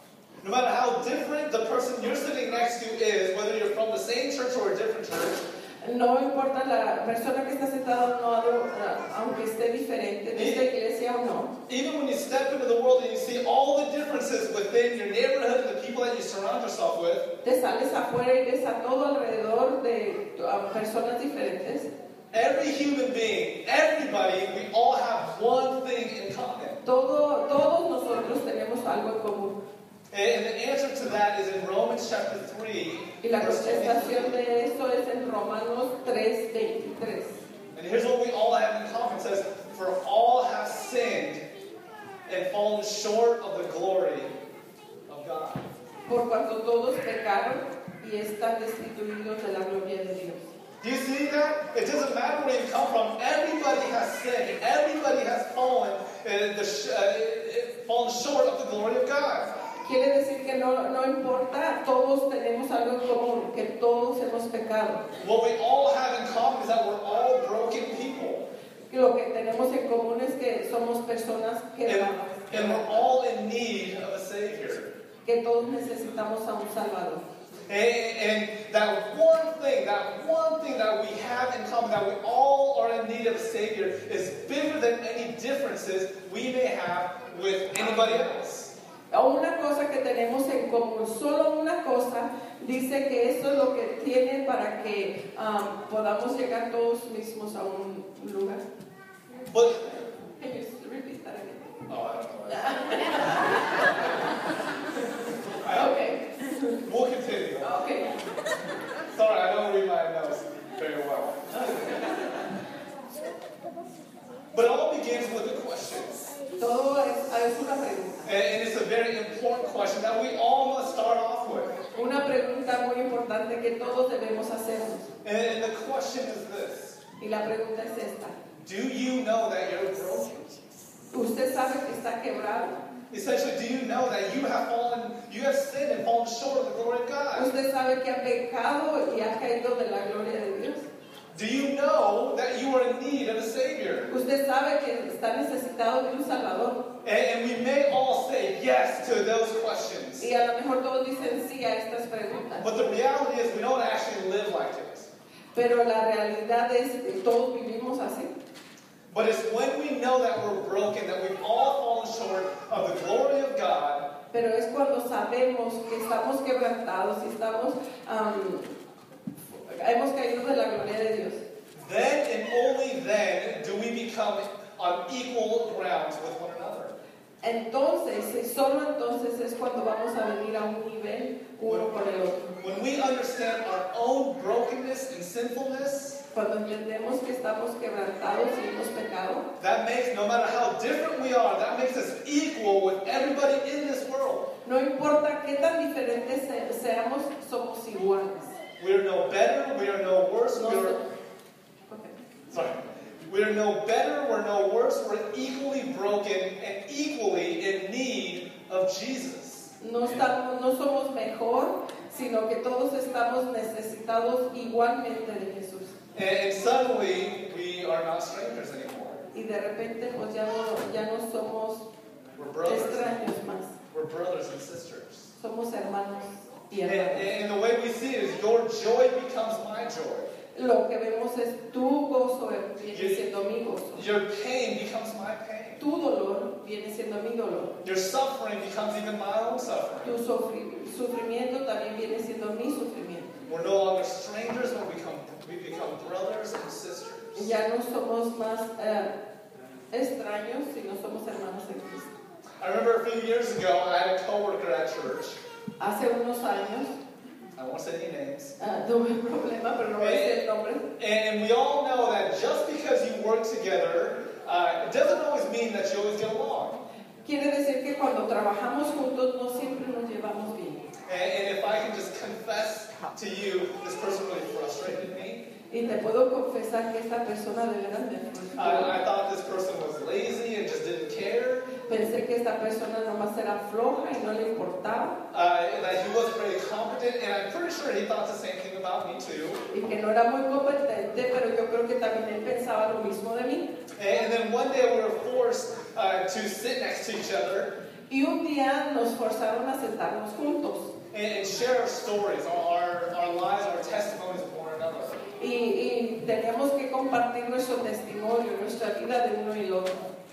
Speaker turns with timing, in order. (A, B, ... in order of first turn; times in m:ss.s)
0:00.4-0:05.4 A
0:05.8-0:11.5 B
0:10.3-0:10.6 A
0:11.7-0:17.3 A
0:17.4-0:21.9 B
0:22.3-0:26.8 A
0:26.8-0:29.6 B
0:30.1-0:34.4 A
0:33.2-0:37.4 B
0:37.7-0:41.4 A
0:42.3-0:44.3 A
0:45.1-0:45.6 A
0:46.0-0:50.5 B
0:50.8-0:59.5 A
0:59.8-1:05.0 B
1:05.2-1:08.4 A
1:08.9-1:13.1 B
1:11.8-1:14.9 A
1:15.2-1:17.2 B
1:17.7-1:28.7 A
1:29.1-1:38.6 B
1:39.5-1:39.9 A
1:39.8-1:41.8 B
1:41.9-1:43.2 A
1:42.5-1:44.2 B
1:45.6-1:45.9 A
1:45.6-1:46.8 B
1:46.8-1:47.7 A
1:47.6-1:48.2 B
1:49.1-1:51.8 A
1:54.5-1:56.3 A
1:56.6-1:58.3 B
1:58.2-2:01.8 A
2:01.9-2:05.1 B
2:05.2-2:07.0 A
2:07.2-2:08.4 B
2:08.6-2:10.5 A
2:11.1-2:12.8 B
2:13.1-2:17.5 A
2:17.3-2:20.9 B
2:21.3-2:24.1 A
2:24.1-2:26.8 B
2:27.0-2:30.3 A
2:30.2-2:32.6 B
2:32.6-2:35.1 A
2:35.5-2:38.3 B
2:39.1-2:44.1 A
2:44.3-2:48.7 B
2:49.5-2:51.4 B
2:51.7-2:57.0 A
2:57.4-3:02.5 B
3:02.6-3:06.2 A
3:06.3-3:09.5 B
3:09.6-3:14.5 A
3:14.6-3:18.6 B
3:18.8-3:21.0 A
3:20.6-3:21.0 B
3:21.9-3:22.2 B
3:22.5-3:29.7 A
3:29.8-3:36.0 B
3:36.1-3:39.2 A
3:39.3-3:41.9 B
3:42.4-3:43.2 A
3:42.6-3:43.8 B
3:43.9-3:45.3 A
3:45.4-3:47.3 B
3:46.8-3:50.3 A
3:50.5-3:54.0 B
3:52.9-3:53.2 A
3:53.9-3:55.8 A
3:55.8-3:57.8 B
3:57.8-4:00.2 A
4:00.0-4:03.3 B
4:03.5-4:07.5 A
4:07.4-4:09.1 B
4:09.9-4:12.1 B
4:12.6-4:15.4 A
4:15.8-4:17.0 B
4:17.6-4:18.6 A
4:18.6-4:20.8 B
4:20.0-4:20.4 A
4:21.0-4:26.8 A
4:27.2-4:30.8 B
4:31.0-4:35.4 A
4:35.7-4:38.9 B
4:38.6-4:41.8 A
4:41.8-4:45.2 B
4:45.3-4:49.6 A
4:49.7-4:53.7 B
4:54.0-4:57.7 A
4:58.1-5:00.9 B
5:01.1-5:05.2 A
5:05.4-5:10.1 B